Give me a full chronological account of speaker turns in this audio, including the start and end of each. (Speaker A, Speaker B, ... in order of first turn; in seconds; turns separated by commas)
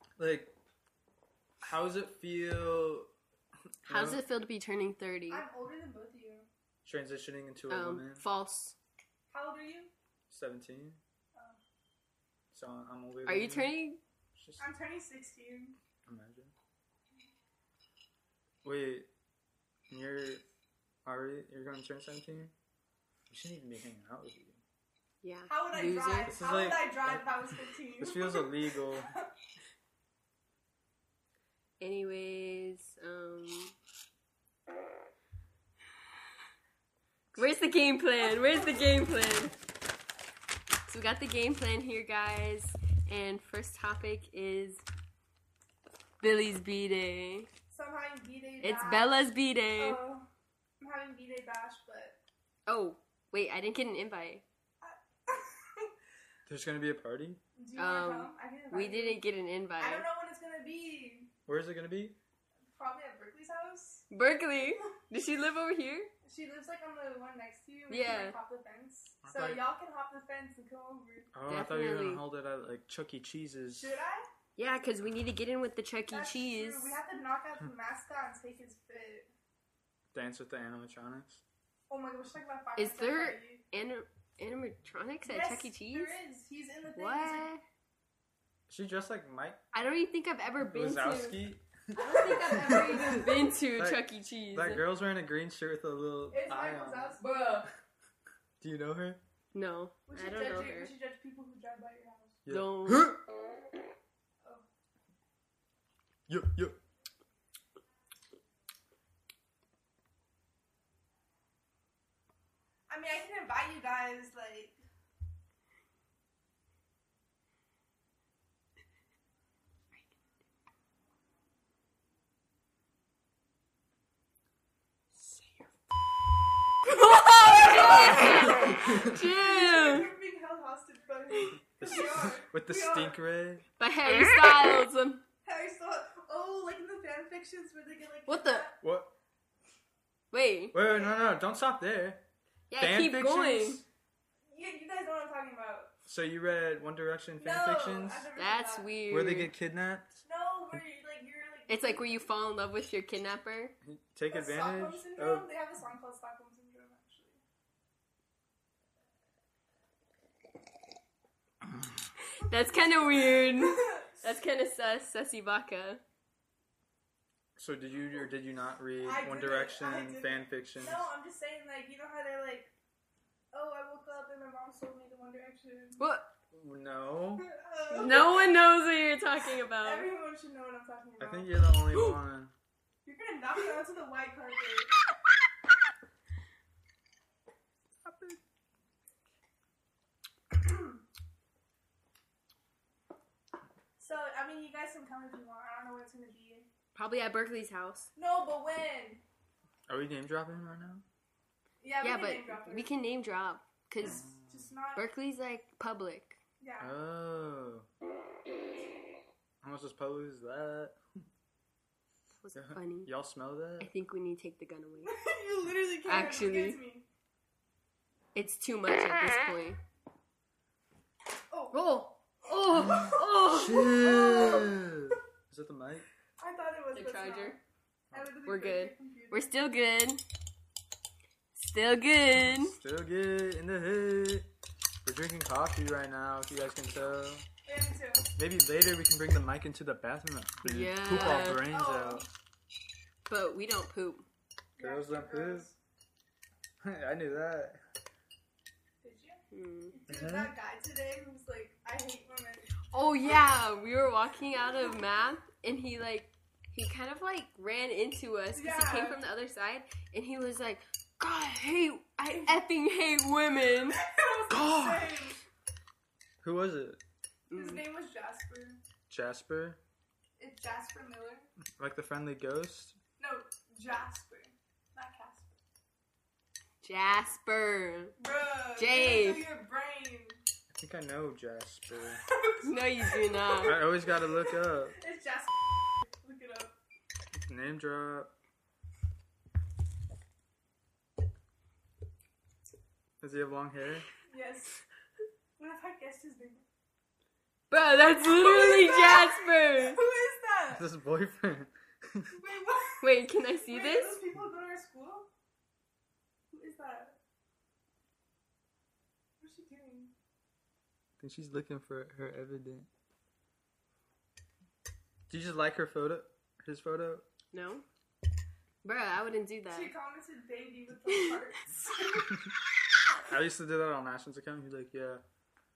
Speaker A: 0.2-0.5, Speaker A: 1.6-3.1, Speaker B: 3.9-5.5, Speaker A: 3.9-4.2, Speaker C: 5.3-6.5, Speaker A: 6.8-8.2, Speaker B: 7.7-8.8, Speaker C: 9.3-9.9, Speaker A: 10.3-11.0, Speaker A: 12.5-13.8, Speaker B: 13.3-14.0, Speaker A: 14.3-14.7, Speaker C: 14.6-15.8, Speaker A: 16.1-16.5, Speaker A: 18.6-19.1, Speaker A: 19.9-20.4, Speaker A: 21.1-22.5, Speaker A: 23.3-24.6, Speaker B: 25.2-26.4, Speaker C: 25.5-28.6, Speaker A: 26.2-29.1, Speaker B: 31.8-33.7, Speaker B: 37.3-39.6, Speaker C: 38.2-38.7, Speaker B: 40.9-44.9, Speaker B: 46.2-47.5, Speaker C: 47.7-50.3, Speaker B: 48.6-50.0, Speaker C: 50.8-52.2, Speaker B: 52.7-54.4, Speaker C: 54.8-55.9, Speaker A: 56.5-57.4, Speaker C: 57.6-59.2, Speaker B: 57.8-60.1, Speaker C: 59.8-61.3, Speaker A: 61.5-62.2, Speaker C: 62.8-64.1, Speaker B: 64.1-66.1, Speaker C: 66.2-71.3, Speaker B: 67.9-68.4, Speaker A: 69.2-69.7, Speaker A: 71.3-74.0, Speaker B: 71.5-72.2, Speaker C: 73.7-74.3, Speaker B: 74.6-77.0, Speaker C: 76.1-79.3, Speaker A: 80.1-81.4, Speaker C: 81.9-83.6, Speaker B: 82.8-86.2, Speaker C: 85.2-87.5, Speaker B: 87.0-87.6, Speaker A: 88.7-89.6, Speaker B: 89.7-94.8, Speaker A: 90.6-97.2, Speaker C: 92.0-93.6, Speaker C: 96.3-97.2, Speaker B: 97.2-97.7, Speaker A: 98.6-99.2, Speaker B: 99.5-100.9, Speaker C: 100.1-102.4, Speaker A: 102.5-103.2, Speaker B: 102.5-103.2, Speaker A: 106.3-106.8, Speaker C: 112.9-114.8, Speaker B: 126.8-130.1, Speaker C: 127.2-133.2, Speaker A: 128.6-129.2, Speaker A: 131.8-133.7, Speaker B: 133.8-135.2, Speaker C: 135.4-138.8, Speaker B: 138.3-138.7, Speaker A: 138.8-139.1, Speaker B: 140.3-140.8, Speaker A: 140.7-142.2, Speaker B: 142.7-143.8, Speaker A: 142.8-143.8, Speaker C: 144.5-145.9, Speaker A: 146.1-148.3, Speaker C: 147.4-148.9, Speaker B: 148.4-149.5, Speaker A: 149.1-150.2, Speaker C: 150.2-152.2, Speaker B: 151.7-153.8, Speaker A: 153.8-155.5, Speaker C: 154.3-157.4, Speaker B: 162.4-166.0, Speaker C: 163.0-164.1, Speaker A: 167.6-171.1, Speaker C: 169.0-172.7, Speaker C: 173.5-176.0, Speaker B: 176.0-176.3, Speaker A: 176.5-177.5, Speaker C: 177.4-178.5, Speaker B: 177.9-180.1, Speaker C: 179.8-182.1, Speaker A: 181.2-182.5, Speaker C: 183.1-184.9, Speaker C: 188.1-188.4, Speaker C: 190.6-191.0, Speaker C: 194.0-196.7, Speaker B: 196.9-198.1, Speaker C: 198.2-199.2, Speaker A: 199.9-201.0, Speaker C: 201.8-202.9, Speaker B: 202.0-204.2, Speaker A: 204.0-204.7, Speaker C: 204.1-205.1, Speaker B: 205.0-206.4, Speaker C: 206.6-207.0, Speaker A: 206.8-207.9, Speaker A: 209.6-211.0, Speaker B: 212.4-213.1, Speaker A: 212.5-213.9, Speaker B: 213.8-215.2, Speaker C: 215.1-217.1, Speaker B: 216.1-216.8, Speaker B: 218.3-219.8, Speaker C: 221.5-221.9, Speaker B: 221.7-223.9, Speaker C: 222.6-224.7, Speaker A: 223.0-226.1, Speaker C: 226.4-227.6, Speaker B: 226.9-227.6, Speaker C: 228.1-229.5, Speaker B: 228.4-230.2, Speaker B: 231.6-232.8, Speaker A: 232.4-234.5, Speaker A: 235.0-237.5, Speaker C: 237.7-238.3, Speaker A: 238.4-242.3, Speaker B: 240.6-241.7, Speaker C: 241.1-242.3, Speaker B: 243.3-244.2, Speaker C: 244.8-245.8, Speaker A: 244.8-245.7, Speaker A: 246.8-247.8, Speaker C: 249.0-249.4, Speaker B: 249.5-250.0, Speaker C: 249.9-253.5, Speaker A: 250.1-250.6, Speaker B: 252.9-264.0, Speaker C: 254.7-255.0, Speaker C: 258.5-259.2, Speaker C: 262.3-262.6, Speaker C: 263.9-265.4, Speaker A: 264.5-265.3, Speaker A: 266.4-267.0, Speaker B: 267.5-267.8, Speaker C: 267.5-268.8, Speaker A: 269.1-269.8, Speaker C: 270.4-271.5, Speaker A: 271.8-273.0, Speaker C: 273.2-275.6, Speaker B: 276.8-278.1, Speaker C: 278.2-280.4, Speaker B: 278.8-279.5, Speaker A: 280.7-282.2, Speaker C: 282.3-286.8, Speaker B: 282.6-283.8, Speaker A: 283.6-285.0, Speaker A: 287.4-288.3, Speaker A: 293.2-294.1, Speaker C: 294.3-294.8, Speaker C: 295.6-296.6, Speaker B: 297.7-300.0, Speaker C: 298.0-300.9, Speaker A: 300.7-302.4, Speaker C: 302.3-305.3, Speaker B: 303.0-304.2, Speaker C: 306.5-307.2, Speaker C: 309.4-310.1, Speaker A: 311.2-312.9, Speaker A: 315.3-317.2, Speaker B: 317.5-317.8, Speaker B: 318.8-319.9, Speaker C: 319.7-322.4, Speaker A: 323.2-325.2